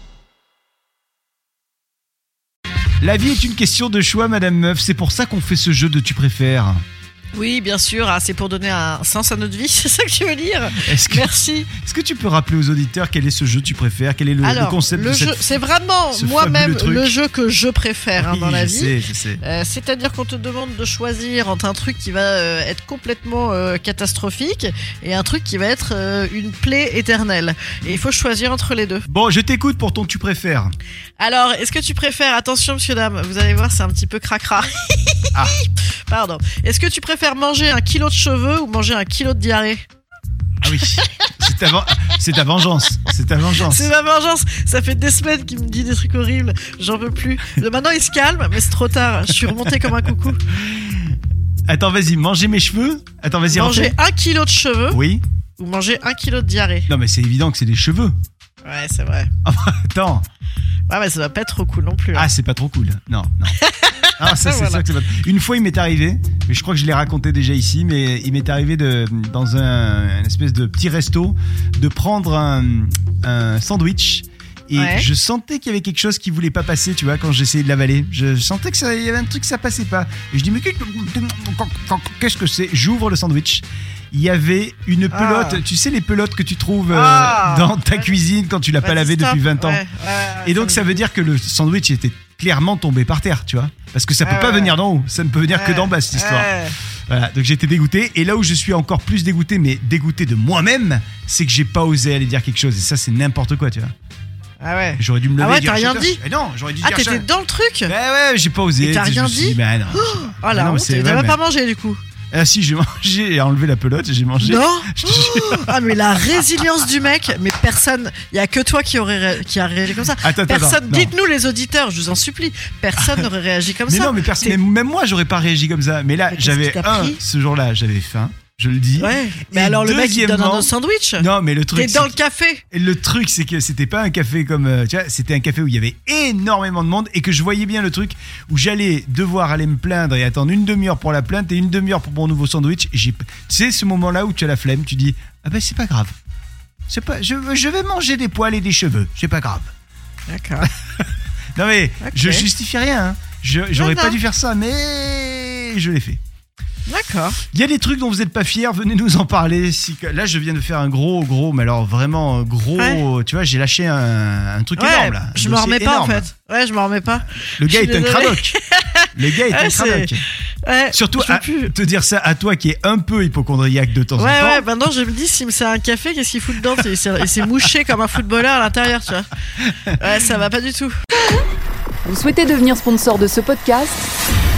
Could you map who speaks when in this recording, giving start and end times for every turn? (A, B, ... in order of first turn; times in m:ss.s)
0:03.0-0:06.8 A
0:07.3-0:11.7 B
0:10.8-0:15.4 A
0:14.4-0:29.0 B
0:16.1-0:17.1 A
0:18.2-0:19.4 A
0:29.1-0:30.7 A
0:31.2-0:39.8 B
0:40.6-0:43.9 A
0:43.6-0:50.4 B
0:50.7-0:51.1 A
0:51.7-0:54.0 A
0:53.5-0:55.0 B
0:54.9-0:55.2 A
0:55.6-0:56.9 B
0:56.9-0:58.1 A
0:58.6-0:59.3 B
0:59.4-1:00.2 A
1:00.9-1:02.3 B
1:02.1-1:03.6 A
1:03.6-1:04.8 B
1:04.2-1:29.8 A
1:14.7-1:15.1 B
1:25.1-1:25.6 B
1:26.9-1:28.1 B
1:28.8-1:31.0 B
1:30.4-1:43.9 A
1:34.2-1:34.8 B
1:35.5-1:36.7 B
1:44.6-1:46.2 B
1:45.0-1:47.3 A
1:46.8-1:47.9 B
1:47.9-1:51.4 A
1:48.8-1:52.0 B
1:52.3-1:55.7 A
1:54.4-2:04.6 B
2:00.2-2:01.1 A
2:03.0-2:03.2 A
2:03.9-2:12.2 A
2:06.3-2:07.2 B
2:09.0-2:12.6 B
2:12.7-2:26.1 A
2:26.9-2:29.7 A
2:30.3-2:30.7 B
2:31.5-2:36.2 A
2:32.0-2:32.4 B
2:33.8-2:34.2 B
2:36.9-2:37.4 B
2:37.5-2:46.2 A
2:42.8-2:43.0 B
2:44.8-2:50.1 B
2:47.4-2:48.6 A
2:49.1-2:50.2 A
2:50.6-2:51.7 B
2:50.9-2:54.6 A
2:54.2-2:59.3 B
2:59.8-3:00.9 B
3:02.0-3:04.1 C